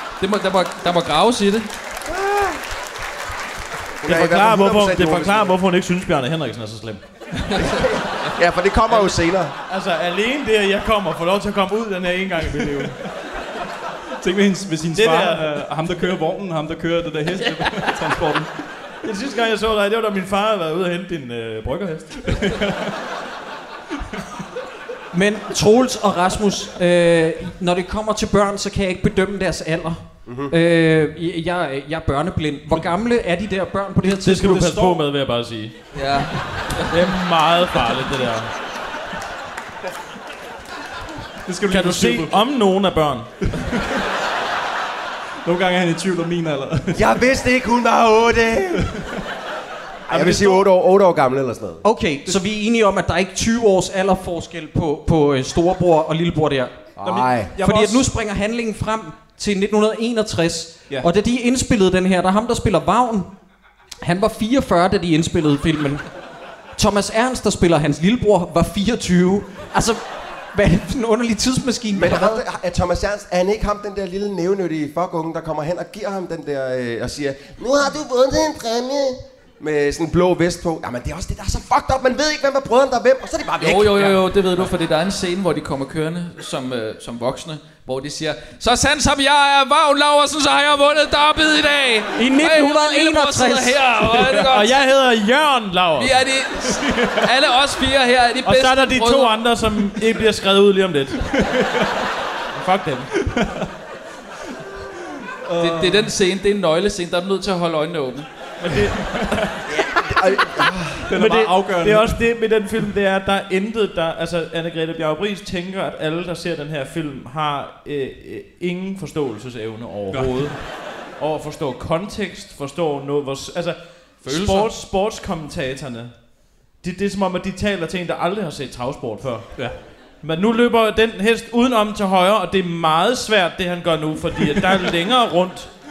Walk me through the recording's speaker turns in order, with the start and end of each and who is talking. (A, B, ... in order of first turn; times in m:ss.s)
0:00.2-0:01.7 A
0:02.1-0:02.6 B
0:04.0-0:05.6 B
0:04.0-0:07.0 C
0:07.6-0:09.5 B
0:09.7-0:13.0 C
0:14.2-0:18.5 D
0:14.9-0:15.5 C
0:19.0-0:22.5 C
0:22.2-0:23.0 D
0:25.1-0:34.8 E
0:30.2-0:30.5 B
0:34.2-0:35.8 C
0:34.5-0:35.0 D
0:35.9-0:37.0 A
0:36.9-0:38.5 C
0:41.4-0:42.4 D
0:41.7-0:43.3 C
0:43.5-0:44.0 D
0:45.4-0:47.2 D
0:46.9-0:49.0 B
0:48.8-0:49.2 D
0:50.1-0:51.8 B
0:50.1-0:50.6 D
0:51.8-0:56.8 E
0:57.0-0:57.5 B
0:57.0-0:58.1 D
0:57.6-1:03.3 E
1:04.0-1:06.1 E
1:06.8-1:12.4 E
1:11.9-1:24.2 B
1:23.6-1:34.8 A
1:32.2-1:33.8 E
1:34.5-1:36.2 C
1:36.0-1:39.6 A
1:36.6-1:37.3 D
1:38.4-1:41.4 C
1:41.2-1:41.9 D
1:42.5-1:43.1 C
1:43.2-1:43.7 D
1:45.4-1:46.1 D
1:45.6-1:48.3 A
1:48.6-1:49.6 C
1:49.7-1:51.1 B
1:51.1-1:52.2 D
1:51.1-2:09.7 C
2:00.1-2:00.6 D
2:04.2-2:04.7 A
2:10.2-2:15.7 C